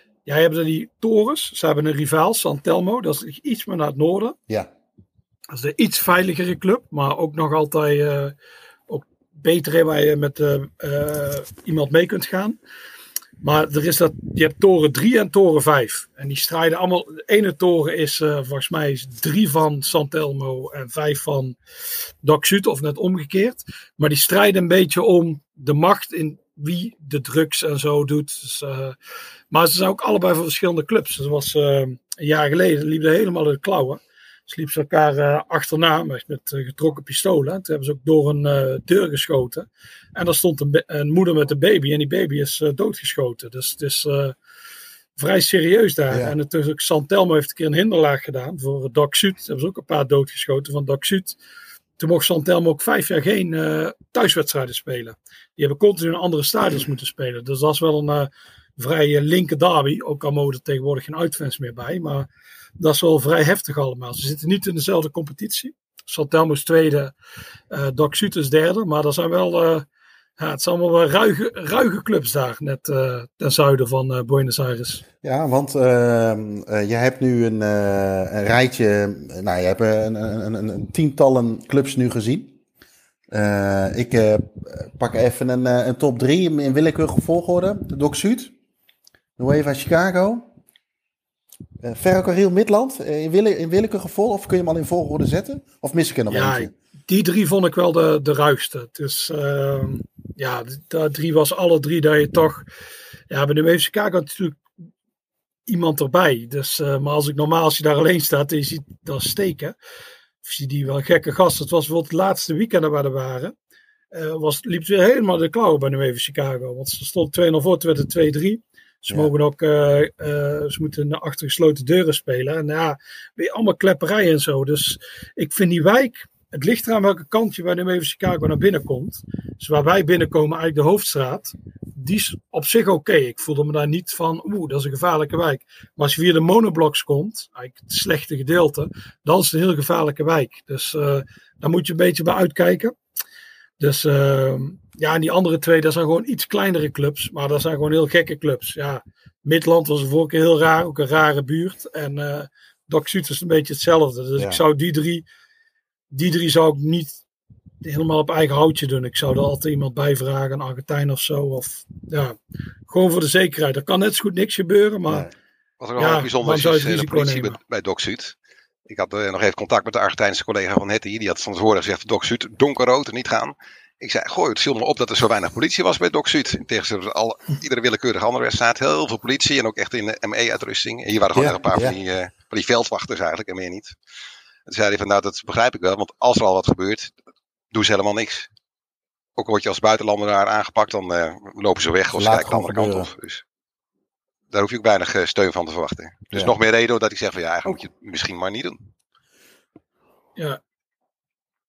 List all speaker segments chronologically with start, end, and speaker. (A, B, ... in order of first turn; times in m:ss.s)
0:00.2-0:04.4 A
0:05.5-0:08.3 A
0:08.9-0:12.6 A
0:13.4-0:21.6 A
0:22.2-0:29.0 A
0:29.5-0:44.3 A
0:45.2-0:51.4 A
0:46.1-0:46.4 B
0:52.0-1:07.1 A
1:07.7-1:09.9 A
1:10.4-1:15.0 A
1:15.2-1:22.5 B
1:23.3-1:28.5 B
1:29.4-1:30.5 B
1:31.8-1:36.7 B
1:36.3-1:42.7 A
1:43.3-1:44.6 A
1:45.7-1:49.8 A
1:50.4-1:53.5 A
1:54.1-2:22.9 A
2:23.8-2:35.2 A
2:34.4-2:34.6 B
2:36.1-2:37.2 A
2:37.8-2:42.4 A
2:42.9-2:45.3 A
2:45.8-2:48.3 C
2:46.0-2:47.6 A
2:48.9-3:04.0 C
3:01.3-3:02.0 B
3:04.6-3:07.1 C
3:07.7-3:08.5 C
3:09.4-3:13.4 C
3:12.1-3:13.1 B
3:14.5-3:18.8 C